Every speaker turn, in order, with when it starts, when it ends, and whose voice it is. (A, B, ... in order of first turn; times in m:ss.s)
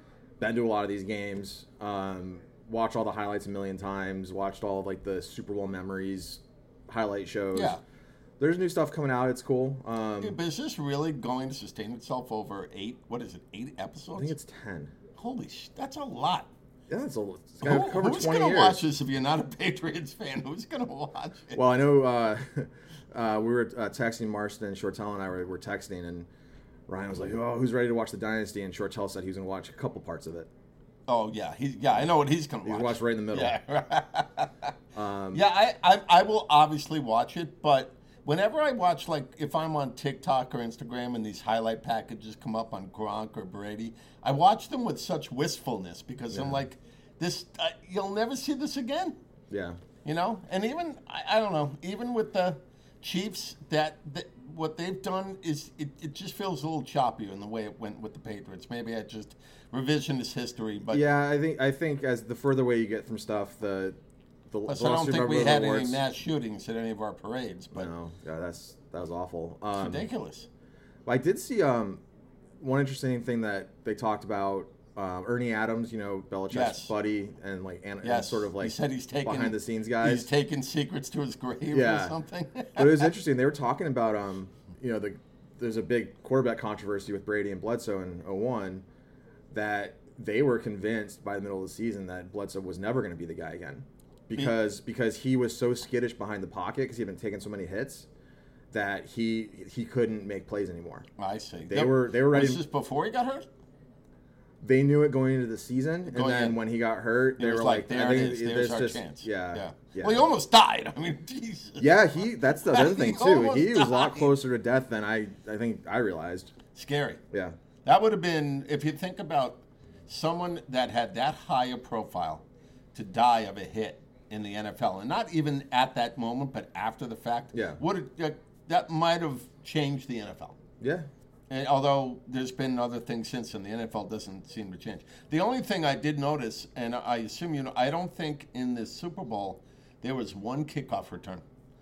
0:00.4-0:07.8 A
0:07.5-0:07.8 B
0:08.4-0:10.4 A
0:10.2-0:14.3 B
0:14.2-0:14.9 A
0:15.2-0:16.5 B
0:16.9-0:18.8 A
0:17.6-0:21.6 B
0:21.5-0:26.3 A
0:26.9-0:30.5 A
0:31.1-0:34.7 B
0:32.6-0:33.6 A
0:34.9-0:35.4 A
0:35.3-0:49.2 B
0:46.3-0:46.6 A
0:49.5-0:49.8 A
0:50.0-1:01.0 B
1:00.9-1:04.0 A
1:04.5-1:06.0 A
1:04.6-1:07.9 B
1:07.7-1:10.1 A
1:09.7-1:10.5 B
1:11.0-1:12.0 A
1:12.6-1:20.3 A
1:16.5-1:16.9 B
1:18.0-1:23.1 B
1:21.7-1:22.2 A
1:22.7-1:28.8 A
1:29.5-1:38.1 A
1:38.7-1:41.0 A
1:41.2-1:43.5 B
1:41.7-1:42.6 A
1:44.6-1:50.3 A
1:46.1-1:46.6 B
1:47.4-1:51.9 B
1:51.8-1:56.5 A
1:52.7-1:54.4 B
1:56.7-1:57.2 B
1:57.8-2:02.4 B
2:02.9-2:10.6 B
2:07.5-2:07.8 A
2:10.8-2:11.1 A
2:11.5-2:21.4 B